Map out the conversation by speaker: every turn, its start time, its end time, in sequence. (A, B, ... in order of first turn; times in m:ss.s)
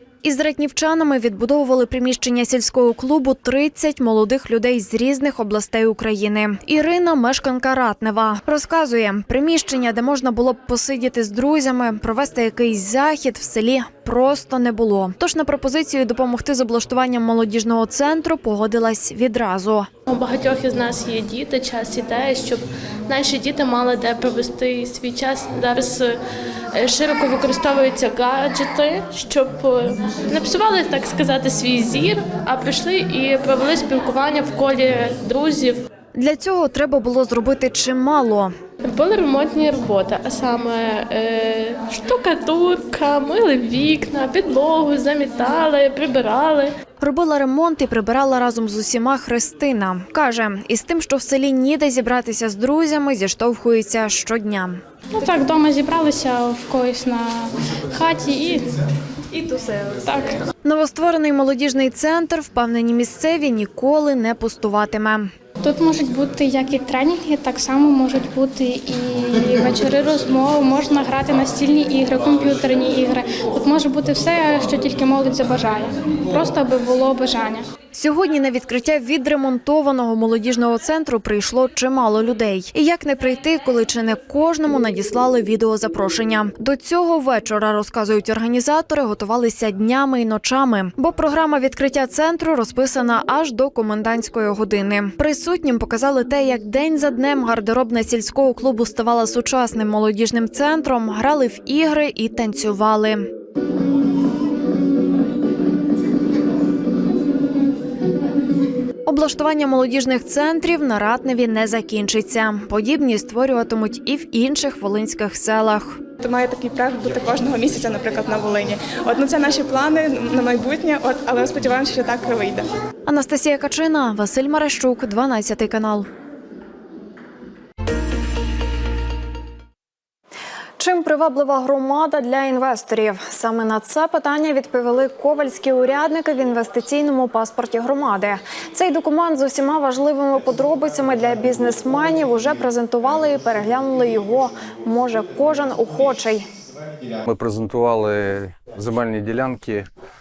0:00.2-0:19.9 A
0:20.1-0:26.2 B
0:26.7-0:35.8 B
0:36.1-0:38.5 A
0:38.8-0:46.7 B
0:47.0-0:54.8 A
0:55.2-0:58.6 C
0:59.3-1:00.0 D
1:00.0-1:00.3 C
1:00.6-1:05.3 A
1:05.6-1:17.6 C
1:17.9-1:43.3 A
1:49.0-1:56.0 A
1:56.2-2:02.7 D
2:03.0-2:06.1 A
2:10.8-2:26.4 A
2:27.2-2:29.9 E